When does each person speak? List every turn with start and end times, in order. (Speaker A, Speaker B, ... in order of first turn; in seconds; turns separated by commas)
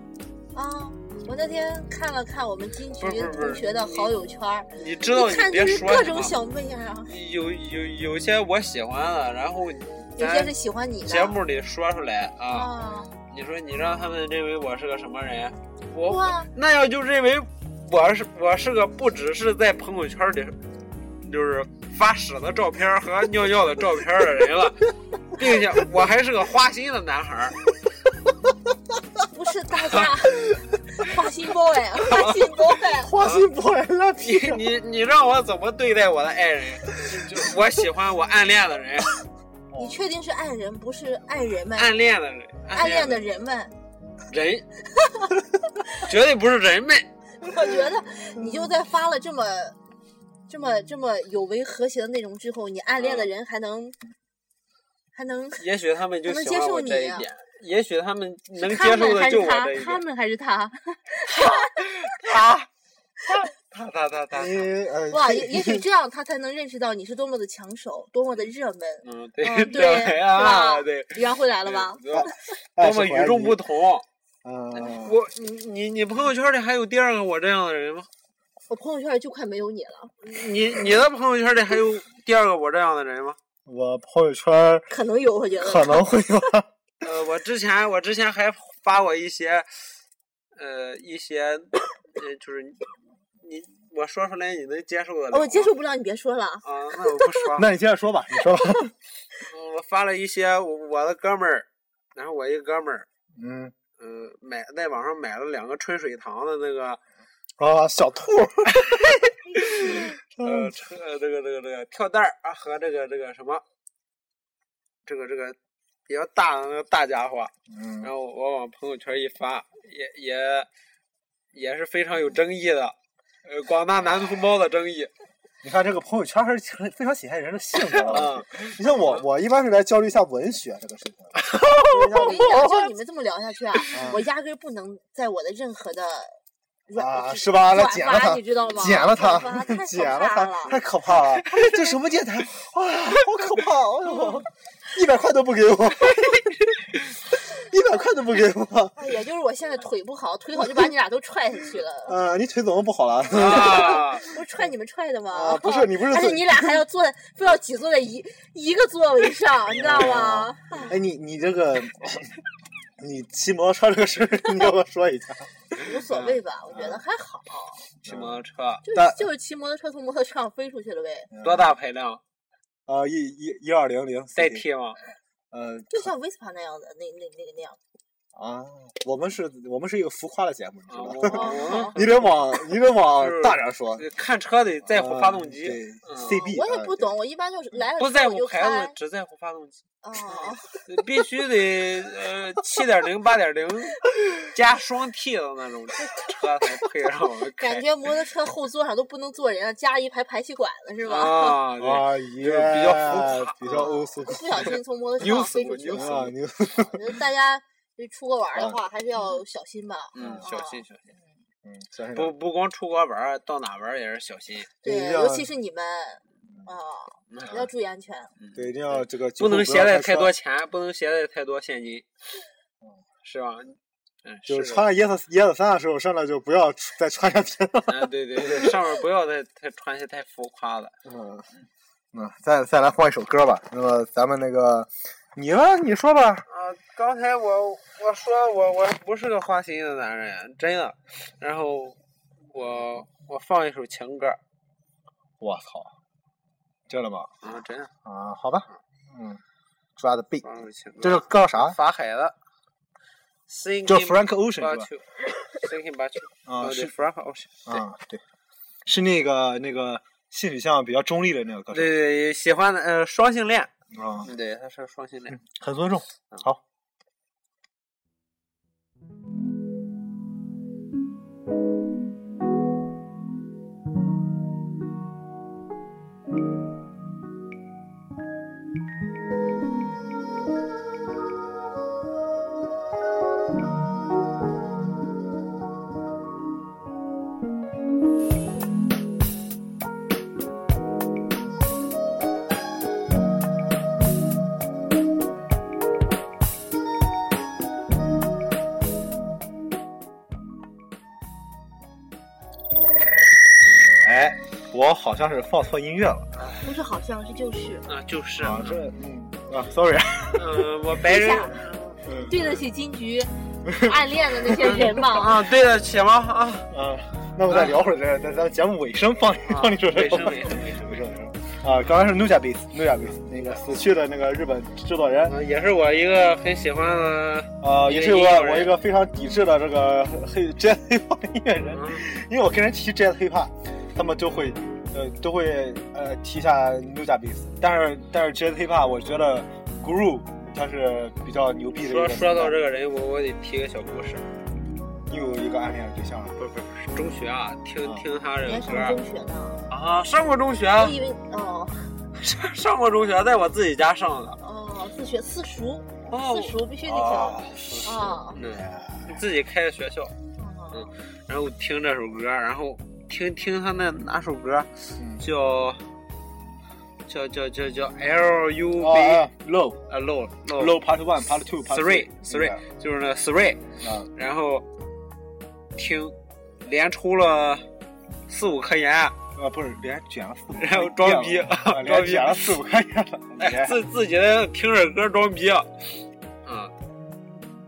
Speaker A: 0.5-7.1, Speaker B: 3.0-4.1, Speaker B: 4.7-6.3, Speaker B: 7.1-12.7, Speaker A: 10.2-11.4, Speaker A: 12.5-13.1, Speaker B: 13.3-20.6, Speaker A: 16.0-16.5, Speaker B: 21.2-27.6, Speaker A: 29.2-33.1, Speaker B: 32.0-32.5, Speaker C: 33.0-34.7, Speaker B: 33.2-33.5, Speaker B: 34.2-39.1, Speaker C: 39.7-40.0, Speaker A: 39.8-41.9, Speaker B: 41.8-43.3, Speaker A: 42.7-43.7, Speaker B: 44.3-44.6, Speaker B: 46.0-47.1, Speaker A: 47.4-49.8, Speaker A: 50.5-54.0, Speaker B: 53.0-53.3, Speaker A: 55.1-55.6, Speaker B: 55.6-60.0, Speaker A: 56.2-57.3, Speaker A: 58.5-61.7, Speaker B: 61.3-62.7, Speaker B: 63.2-64.7, Speaker C: 64.3-65.8, Speaker A: 65.1-72.0, Speaker B: 69.0-74.0, Speaker C: 72.1-73.6, Speaker C: 74.4-75.2, Speaker B: 74.8-78.1, Speaker A: 78.7-80.1, Speaker B: 80.2-83.4, Speaker C: 83.7-84.9, Speaker A: 84.9-86.1, Speaker C: 85.6-86.7, Speaker B: 87.0-89.7, Speaker B: 90.5-95.7, Speaker A: 95.3-97.3, Speaker B: 96.6-97.7, Speaker C: 97.5-98.9, Speaker B: 99.5-103.1, Speaker C: 103.3-103.7, Speaker B: 104.0-107.0, Speaker C: 107.6-110.7, Speaker B: 109.6-113.6, Speaker B: 115.0-115.5, Speaker B: 116.1-120.7, Speaker C: 117.7-118.1, Speaker B: 121.5-125.1, Speaker C: 125.6-132.6, Speaker B: 127.9-129.2, Speaker B: 131.4-132.6, Speaker A: 131.9-140.8, Speaker C: 133.9-134.2, Speaker C: 136.9-146.6, Speaker B: 141.4-141.8, Speaker C: 147.5-149.0, Speaker A: 148.9-152.2, Speaker C: 152.1-154.2, Speaker B: 153.3-154.2, Speaker A: 154.2-160.9, Speaker C: 155.3-156.8, Speaker C: 159.7-162.3, Speaker C: 163.0-165.5, Speaker A: 165.8-167.8, Speaker B: 166.1-166.3, Speaker C: 166.7-167.0, Speaker B: 168.0-168.8, Speaker C: 168.0-169.3, Speaker A: 168.8-171.3, Speaker C: 171.3-171.7, Speaker B: 171.4-172.2, Speaker C: 172.9-174.6, Speaker B: 174.3-175.0, Speaker C: 175.5-176.1, Speaker A: 175.9-177.8, Speaker C: 178.3-184.0, Speaker B: 180.9-182.5, Speaker A: 181.2-181.9, Speaker B: 183.2-186.4, Speaker C: 184.9-187.1, Speaker A: 186.2-188.9, Speaker B: 188.0-197.8, Speaker A: 190.0-190.8, Speaker A: 197.6-201.6, Speaker B: 201.0-203.9, Speaker C: 201.8-204.7, Speaker A: 203.7-206.2, Speaker B: 204.6-206.3, Speaker C: 205.8-207.1, Speaker A: 206.7-210.8, Speaker B: 210.1-211.0, Speaker C: 210.2-210.4, Speaker C: 211.6-212.3, Speaker B: 212.1-214.7, Speaker C: 214.8-215.5, Speaker A: 214.8-218.3, Speaker B: 217.3-217.6, Speaker B: 218.4-222.1, Speaker C: 218.5-220.3, Speaker B: 223.2-224.8, Speaker C: 224.5-228.7, Speaker B: 227.9-230.9, Speaker C: 231.0-231.4, Speaker C: 232.1-236.4, Speaker B: 236.5-242.0, Speaker B: 242.5-244.4, Speaker C: 245.4-245.9, Speaker C: 246.9-247.3, Speaker B: 247.4-247.9, Speaker C: 248.0-249.4, Speaker C: 250.0-250.5, Speaker B: 250.4-252.3, Speaker C: 251.0-251.8, Speaker B: 253.5-257.8, Speaker C: 253.8-254.9, Speaker C: 256.4-256.9, Speaker C: 257.6-258.2, Speaker C: 258.9-262.0, Speaker B: 261.7-263.7, Speaker C: 263.9-264.3, Speaker B: 264.2-265.4, Speaker C: 265.3-266.6, Speaker C: 304.0-306.3, Speaker B: 306.4-306.6, Speaker A: 306.6-307.8, Speaker B: 307.9-308.8, Speaker C: 308.4-310.6, Speaker B: 310.3-311.8, Speaker A: 311.0-311.7, Speaker C: 312.1-312.3, Speaker A: 312.2-315.4, Speaker C: 313.7-313.9, Speaker B: 315.1-316.7, Speaker C: 316.7-325.4, Speaker B: 317.5-317.8, Speaker B: 319.5-321.1, Speaker B: 323.4-323.6, Speaker B: 325.3-328.8, Speaker C: 327.6-342.6, Speaker B: 331.7-332.0, Speaker B: 341.8-344.2, Speaker C: 345.1-346.3, Speaker B: 346.4-349.0, Speaker A: 348.4-349.7, Speaker B: 349.7-351.0, Speaker A: 350.8-351.9, Speaker B: 352.1-354.4, Speaker A: 354.4-358.4, Speaker B: 356.1-360.1, Speaker C: 357.0-357.9, Speaker C: 358.4-359.1, Speaker A: 360.4-360.9, Speaker B: 360.7-364.7, Speaker C: 365.0-365.2, Speaker B: 365.2-365.8, Speaker B: 367.1-369.2, Speaker C: 368.8-369.8, Speaker B: 369.9-370.8, Speaker C: 370.5-372.6, Speaker B: 371.7-374.6, Speaker C: 373.8-374.1, Speaker B: 375.8-377.6, Speaker B: 378.3-379.1, Speaker C: 379.4-383.8, Speaker B: 380.6-382.6, Speaker B: 383.4-385.7, Speaker B: 386.4-386.7